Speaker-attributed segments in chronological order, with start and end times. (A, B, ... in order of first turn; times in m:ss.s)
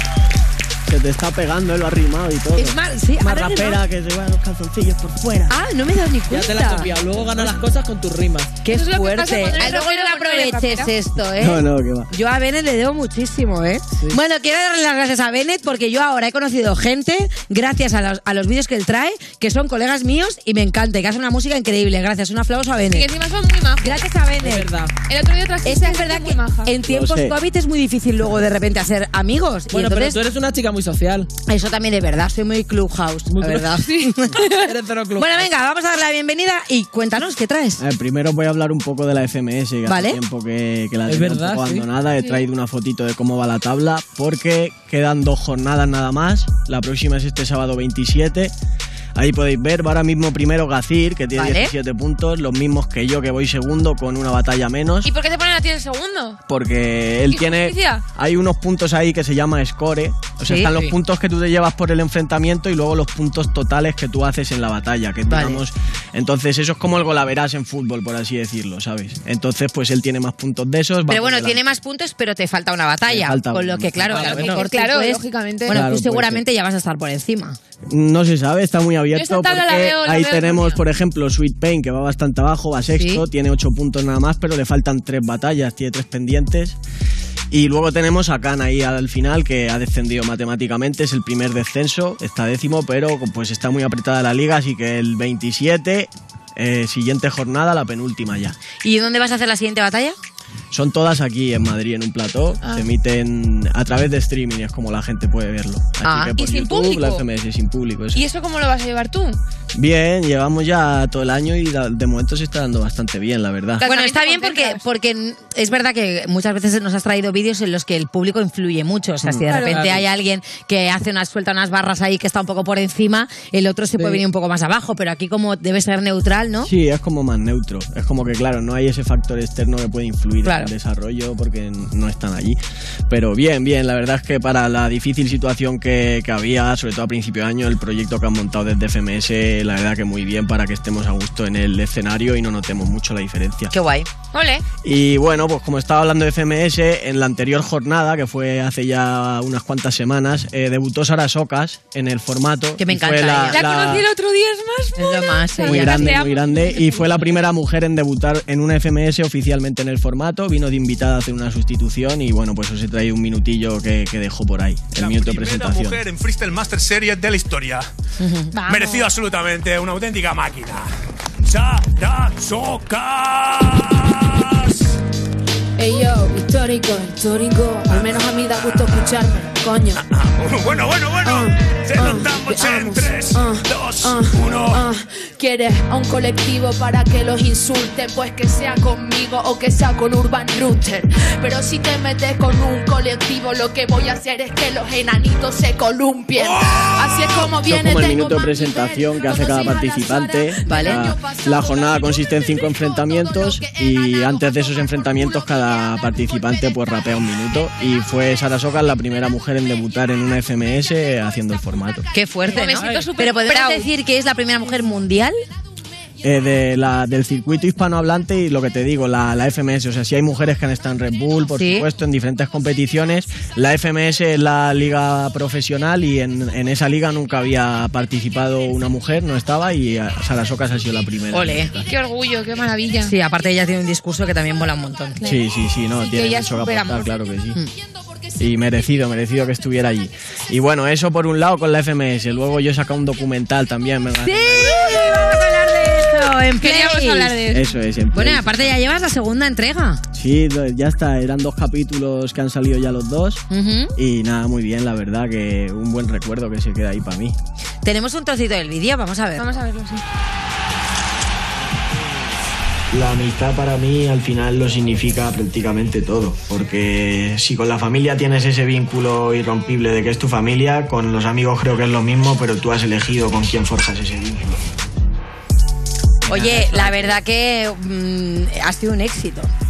0:00.9-0:05.5 A
0:02.5-0:03.8 B
0:05.5-0:06.9 B
0:06.3-0:08.6 C
0:08.6-0:23.1 B
0:08.7-0:10.9 D
0:11.4-0:12.1 A
0:22.9-0:24.0 D
0:23.8-0:24.7 B
0:24.4-0:24.9 C
0:25.1-0:26.7 D
0:25.6-0:30.2 B
0:26.8-0:27.4 A
0:29.7-0:31.3 C
0:31.5-0:34.5 B
0:33.3-0:33.8 C
0:33.8-0:34.7 D
0:34.6-0:35.5 C
0:35.2-0:37.8 B
0:37.8-0:48.5 A
0:39.9-0:40.2 B
0:41.1-0:41.9 C
0:49.2-0:55.1 A
0:51.4-0:51.7 B
0:55.0-0:56.4 D
0:56.5-1:11.6 A
0:57.3-0:58.0 D
1:00.4-1:00.9 B
1:05.3-1:05.6 B
1:11.1-1:17.6 B
1:13.1-1:14.5 A
1:14.1-1:14.6 C
1:14.1-1:15.8 D
1:15.7-1:16.4 A
1:17.9-1:26.8 A
1:19.2-1:20.8 D
1:22.9-1:23.2 B
1:27.5-1:38.6 A
1:38.8-1:40.2 B
1:40.7-1:48.2 A
1:46.0-1:46.4 B
1:46.4-1:47.2 D
1:48.1-1:49.4 D
1:49.7-1:53.9 A
1:53.8-1:54.8 D
1:53.8-2:06.7 B
1:59.2-1:59.5 A
1:59.5-1:59.9 D
1:59.7-2:00.0 C
2:06.6-2:23.7 A
2:10.4-2:10.7 B
2:23.7-2:24.1 B
2:24.3-2:24.6 D
2:24.8-2:34.1 A
2:32.8-2:33.7 B
2:33.5-2:37.4 D
2:35.0-2:36.3 B
2:35.6-2:46.0 A
2:45.0-2:47.8 E
2:48.2-2:48.6 B
2:48.5-2:49.1 D
2:48.7-2:50.6 E
2:51.6-2:53.1 E
2:55.8-3:00.0 F
3:01.2-3:23.8 F
3:02.0-3:02.5 E
3:03.0-3:03.8 E
3:17.6-3:32.1 A
3:20.6-3:21.1 B
3:32.1-3:35.4 B
3:32.5-3:33.9 D
3:36.2-3:51.9 A
3:41.5-3:41.9 B
3:51.3-3:51.7 B
3:51.9-3:53.1 D
3:53.0-3:55.2 B
3:55.2-3:57.6 A
3:56.0-3:57.1 D
3:58.4-4:05.2 A
4:04.2-4:07.4 B
4:06.6-4:07.6 D
4:07.5-4:08.7 A
4:08.1-4:10.0 B
4:10.1-4:13.4 A
4:13.5-4:13.9 B
4:14.0-4:17.4 A
4:17.8-4:19.5 B
4:19.4-4:20.0 D
4:22.9-4:34.6 A
4:36.3-4:39.5 B
4:36.3-4:37.2 A